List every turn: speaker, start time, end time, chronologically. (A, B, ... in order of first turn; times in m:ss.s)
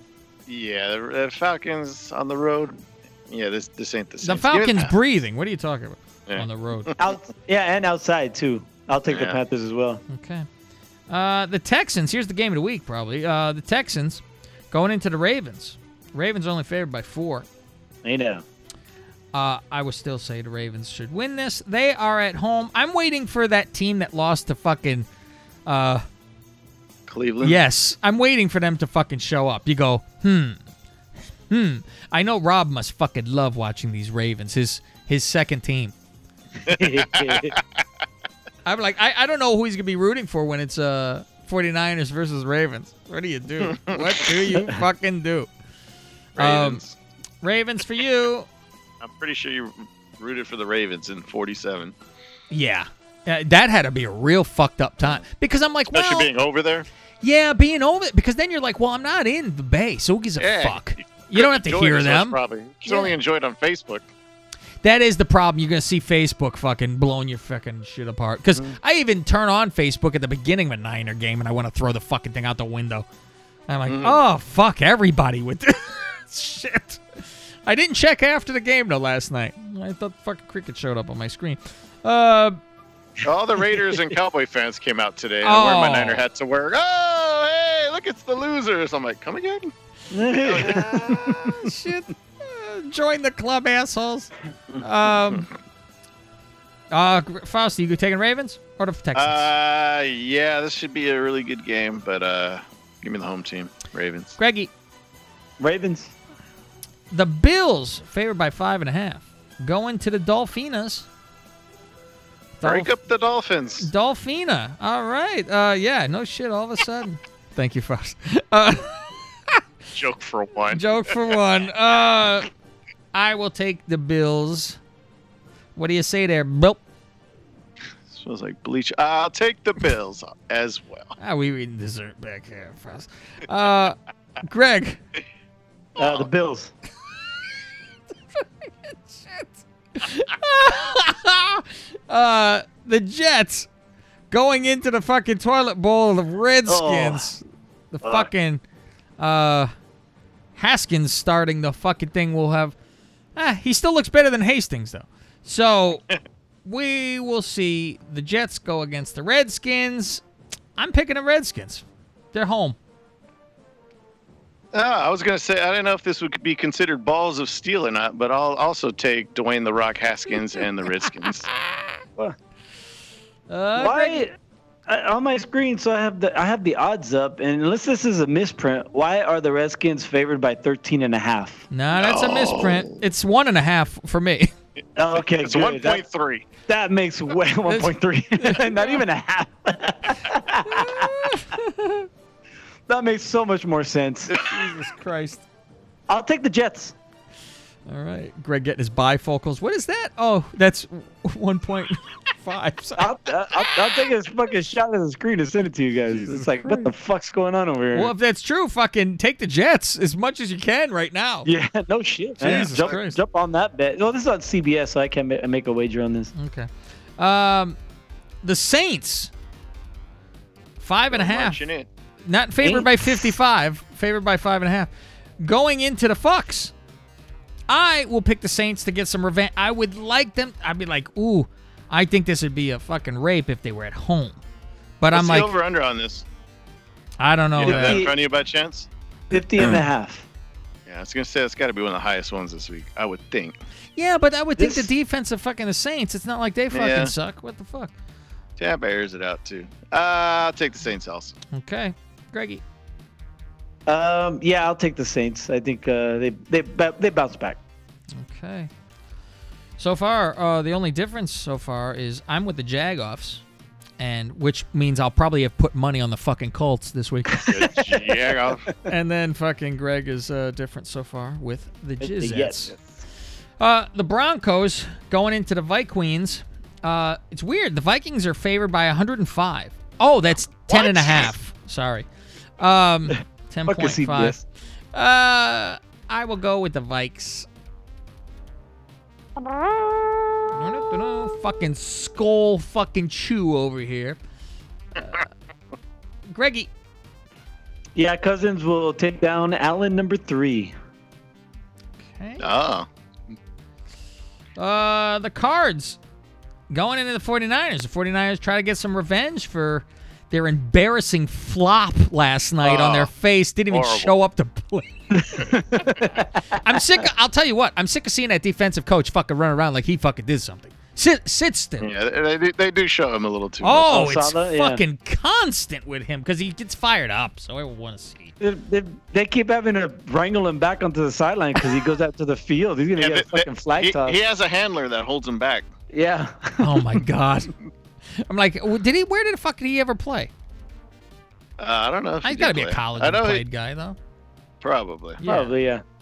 0:00.5-0:04.9 A
0:04.2-0:06.9 B
0:07.0-0:10.0 C
0:09.1-0:09.4 A
0:10.1-0:10.5 B
0:11.1-0:17.5 B
0:18.0-0:18.4 C
0:19.3-0:25.1 B
0:25.6-0:26.0 B
0:27.1-0:27.6 A
0:27.4-0:30.6 B
0:31.5-0:35.9 B
0:36.7-0:37.6 C
0:36.7-0:37.6 A
0:38.6-0:45.5 B
0:43.6-0:44.4 A
0:46.4-0:46.8 B
0:46.4-0:46.9 A
0:47.4-0:48.5 B
0:49.0-0:51.9 A
0:52.5-0:56.3 B
0:55.9-0:56.9 A
0:57.2-1:03.2 B
1:00.4-1:04.0 A
1:04.8-1:13.0 B
1:13.7-1:22.6 B
1:13.9-1:14.2 A
1:23.2-1:29.7 A
1:25.4-1:26.2 B
1:30.1-1:31.5 C
1:30.4-1:31.0 A
1:30.5-1:35.5 B
1:36.9-1:39.5 B
1:39.1-1:44.3 A
1:44.4-1:44.7 B
1:45.6-1:46.1 C
1:47.1-1:51.1 B
1:52.6-1:52.9 B
1:52.6-1:53.9 A
1:53.8-1:59.6 B
1:59.9-2:01.1 A
2:00.7-2:02.5 B
2:03.1-2:04.8 B
2:05.8-2:06.8 B
2:08.1-2:11.1 A
2:11.2-2:15.0 B
2:16.0-2:16.3 A
2:16.0-2:16.7 C
2:18.3-2:23.7 B
2:24.3-2:28.6 B
2:26.7-2:27.3 C
2:29.2-2:29.7 B
2:30.6-2:32.7 B
2:33.4-2:36.0 B
2:36.6-2:40.2 B
2:40.8-2:42.8 B
2:44.7-2:51.5 A
2:51.5-2:51.9 B
2:53.5-2:54.3 B
2:53.8-2:54.3 C
2:54.9-3:01.6 C
3:01.7-3:04.5 B
3:02.0-3:02.9 A
3:05.0-3:06.0 C
3:05.4-3:06.4 A
3:06.6-3:11.3 C
3:07.7-3:09.0 B
3:10.7-3:12.1 B
3:12.9-3:14.3 C
3:14.3-3:15.4 B
3:16.1-3:16.9 C
3:17.9-3:24.1 B
3:23.0-3:28.1 C
3:26.1-3:26.9 B
3:27.9-3:31.5 B
3:31.4-3:36.3 C
3:32.4-3:33.2 B
3:32.4-3:33.0 A
3:36.3-3:37.8 B
3:38.4-3:39.3 B
3:40.8-3:41.6 B
3:41.1-3:41.9 A
3:42.2-3:46.7 B
3:42.6-3:43.3 C
3:47.7-3:54.4 B
3:55.0-3:55.5 B
3:55.1-3:56.2 A
3:57.2-3:58.0 B
3:57.6-3:58.9 A
3:57.6-3:58.2 C
3:59.3-4:00.2 C
4:00.9-4:03.6 A
4:04.0-4:07.9 B
4:04.6-4:04.9 C
4:06.7-4:07.1 A
4:08.6-4:11.4 A
4:11.5-4:12.6 B
4:13.9-4:17.6 C
4:18.2-4:18.7 B
4:19.8-4:23.4 B
4:24.0-4:27.3 B
4:27.3-4:27.8 C
4:27.5-4:28.7 A
4:28.9-4:32.7 B
4:32.0-4:32.8 C
4:33.6-4:42.1 B
4:40.7-4:41.3 A
4:42.6-4:44.4 B
4:43.7-4:44.4 C
4:44.9-4:47.5 B
4:50.5-4:54.2 B
4:55.0-4:55.3 B
4:56.3-4:56.7 B
4:58.0-5:00.7 C
5:02.0-5:02.4 B
5:02.4-5:02.9 A
5:04.6-5:06.0 B
5:06.7-5:15.4 B
5:12.6-5:13.1 A
5:13.7-5:14.1 A
5:15.4-5:16.6 C
5:16.6-5:21.9 B
5:21.8-5:24.1 A
5:23.6-5:28.3 B
5:23.9-5:24.8 C
5:28.4-5:34.2 C
5:33.0-5:35.7 A
5:35.9-5:36.8 C
5:36.6-5:37.5 B
5:38.1-5:40.3 B
5:41.6-5:43.4 A
5:42.2-5:44.0 B
5:44.6-5:45.2 A
5:45.2-5:45.5 B
5:45.2-5:45.8 C